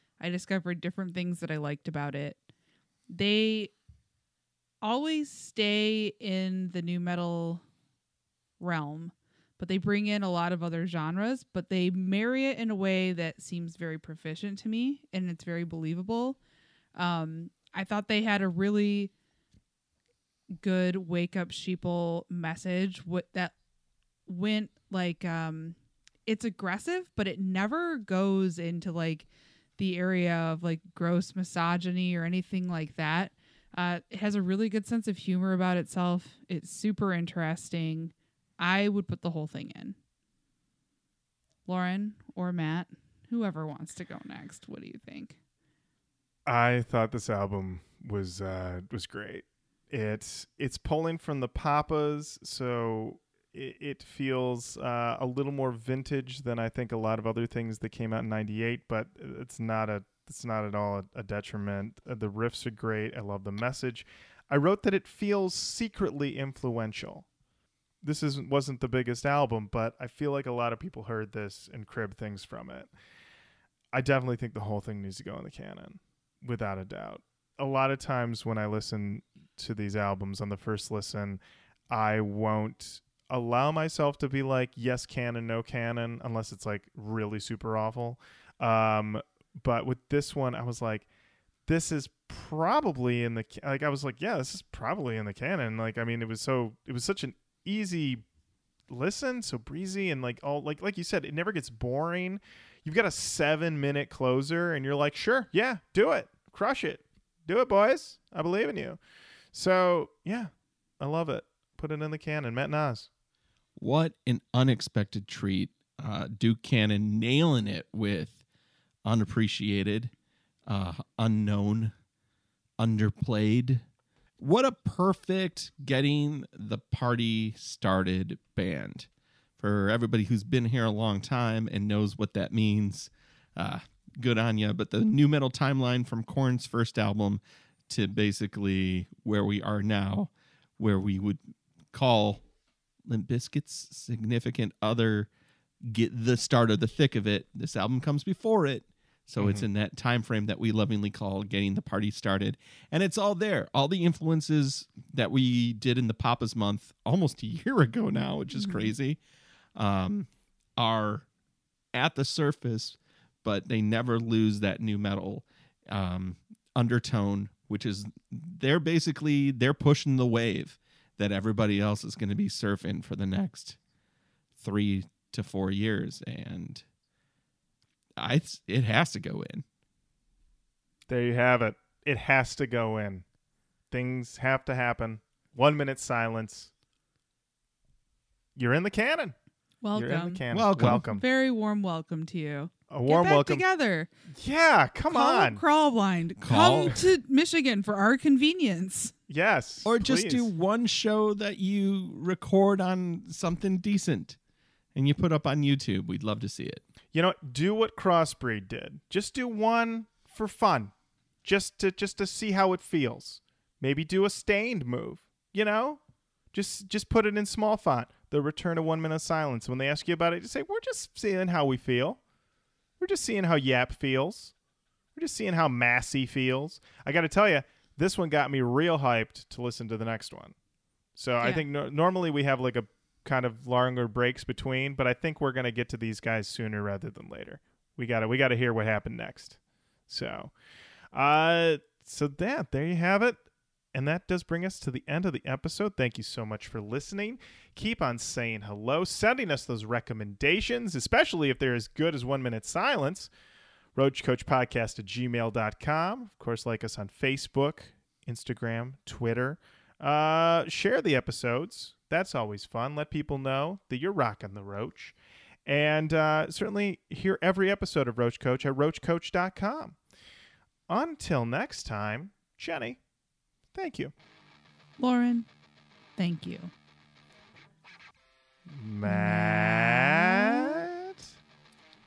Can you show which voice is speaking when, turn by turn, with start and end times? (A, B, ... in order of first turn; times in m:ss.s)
0:00.2-0:02.4 A
0:03.1-0:03.7 A
0:04.8-0:07.6 A
0:08.6-0:16.4 A
0:17.0-0:19.1 A
0:20.6-0:23.5 A
0:24.3-0:25.8 A
0:26.3-0:29.3 A
0:29.8-0:40.0 A
0:41.7-0:45.4 A
0:46.5-1:07.3 B
1:08.0-1:12.9 B
1:13.9-1:31.1 B
1:31.7-1:38.2 B
1:38.9-1:49.0 B
1:49.5-1:53.1 B
1:53.8-1:58.4 C
1:59.0-2:00.1 C
2:00.7-2:01.9 C
2:02.8-2:03.8 C
2:04.4-2:09.1 C
2:09.6-2:22.4 C
2:23.1-2:25.3 C
2:25.8-2:39.2 C
2:29.4-2:29.7 B
2:38.5-2:38.9 A
2:39.8-2:41.3 C
2:41.9-2:53.8 C
2:54.6-2:56.8 C
2:58.2-2:59.6 C
3:01.1-3:03.2 B
3:03.9-3:06.7 B
3:08.6-3:09.4 B
3:09.8-3:10.4 A
3:09.9-3:11.2 B
3:10.5-3:11.0 C
3:11.0-3:14.1 A
3:12.9-3:13.6 B
3:14.3-3:15.6 B
3:15.1-3:19.1 A
3:16.4-3:17.0 C
3:19.3-3:20.5 B
3:19.8-3:24.4 C
3:25.0-3:26.8 C
3:27.1-3:30.9 B
3:31.4-3:36.0 B
3:36.5-3:42.2 B
3:43.0-3:44.5 B
3:45.2-3:50.6 B
3:51.2-3:59.6 B
3:51.4-3:51.7 A
4:00.1-4:00.5 B
4:01.1-4:03.4 B
4:03.9-4:13.3 B
4:14.0-4:30.0 B
4:30.9-4:33.0 B
4:33.7-4:34.1 B
4:35.0-4:35.5 A
4:36.2-4:36.7 A
4:38.7-4:41.2 B
4:39.0-4:40.8 A